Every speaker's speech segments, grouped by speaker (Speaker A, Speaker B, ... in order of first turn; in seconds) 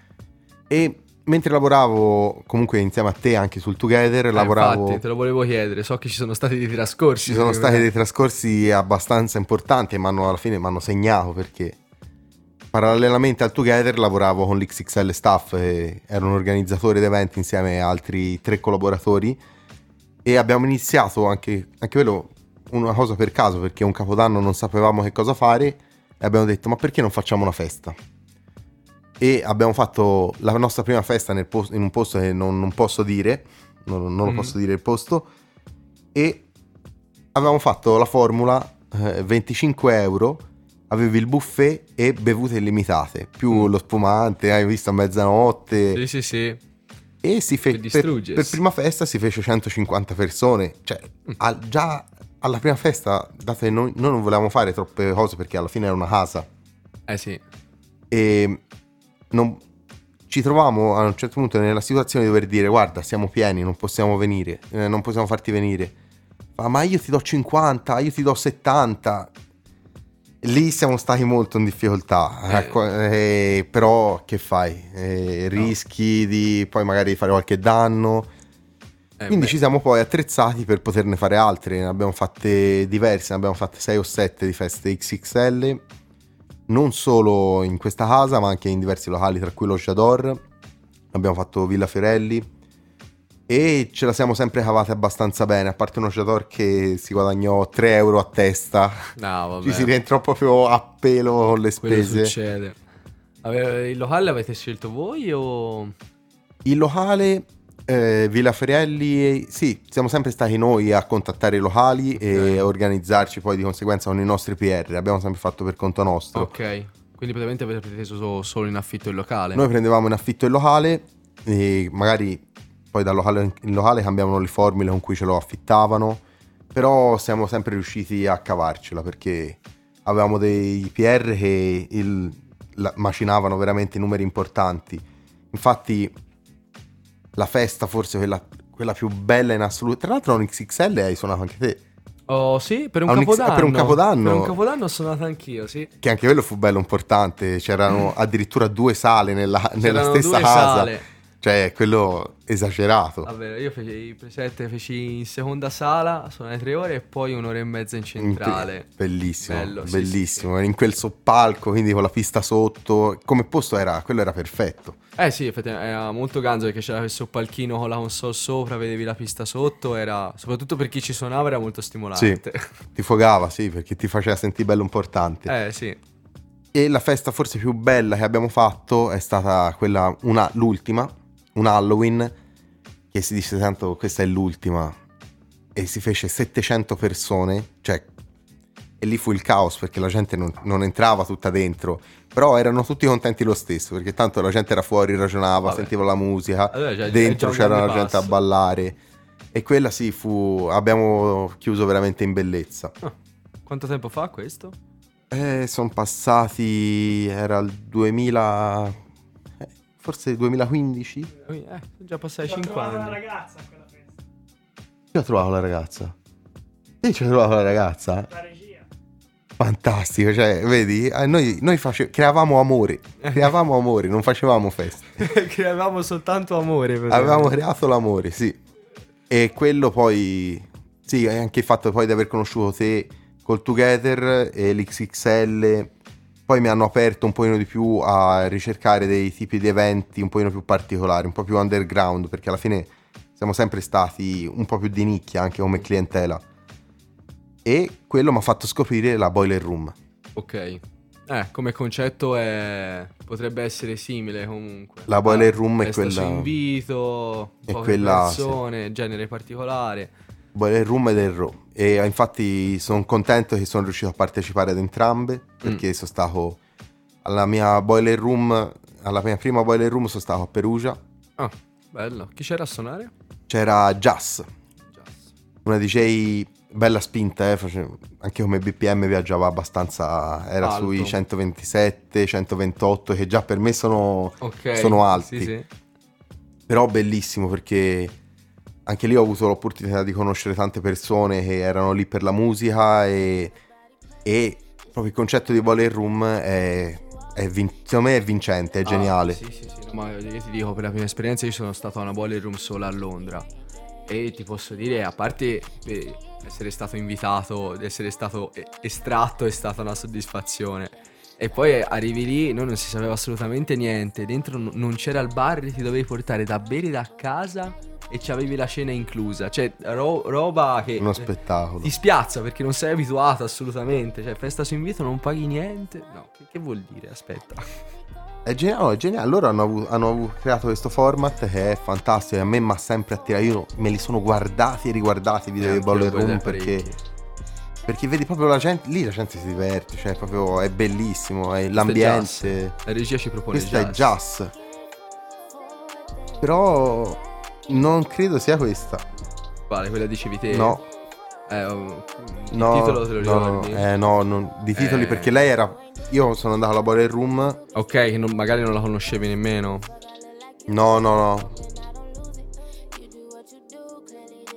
Speaker A: 0.7-5.0, 7.2-11.8, 12.7-19.4, 20.2-28.0, 29.2-35.3, 36.1-36.5, 37.3-46.0, 47.2-56.5, 58.1-58.6, 59.3-59.6, 60.3-65.9, 66.5-69.3, 70.4-78.3, 79.3-85.8, 86.7-90.4, 91.1-92.5, 93.5-102.3, 106.6-116.5, 119.5-126.2, 126.7-136.1, 137.3-141.8, 143.1-144.6, 146.0-153.3, 158.2-165.0, 172.1-172.4, 172.9-175.5, 176.7-182.3, 183.1-185.0, 185.7-188.1, 189.0-199.0, 199.5-202.9, 205.3-209.0, 209.6-211.3, 215.1-216.1, 217.0-218.3, 219.6-225.3, 227.1-228.6, 229.3-235.9, 236.5-246.4, 247.6-249.9, 255.1-256.5, 257.7-258.6, 260.5-266.6, 267.2-271.0, 273.5-274.5, 275.6-285.5, 286.7-288.1, 288.9-293.6, 294.2-299.4, 321.0-321.9, 328.4-336.9, 337.9-342.8, 343.5-344.5, 346.4-349.1, 350.5-350.8, 352.5-357.6, 360.6-361.6
Speaker B: 4.3-7.8, 34.2-34.5, 45.9-46.6, 47.7-48.6, 57.1-57.4, 72.5-72.8, 79.2-79.6, 99.2-99.9, 101.8-102.8, 103.4-105.9, 112.2-112.7, 116.3-119.6, 142.3-145.9, 149.8-151.1, 153.2-158.9, 159.4-160.5, 165.2-172.7, 175.5-176.0, 195.6-195.9, 196.7-198.3, 203.7-204.8, 211.4-213.2, 223.2-223.5, 225.2-227.5, 250.3-260.1, 271.4-273.1, 274.9-275.3, 280.6-281.2, 284.4-285.7, 298.8-303.5, 304.1-321.3, 321.8-327.6, 335.6-336.9, 341.8-344.1, 349.7-350.8, 351.5-353.8, 354.7-355.3, 357.7-359.9
Speaker C: 212.4-214.2, 218.3-218.8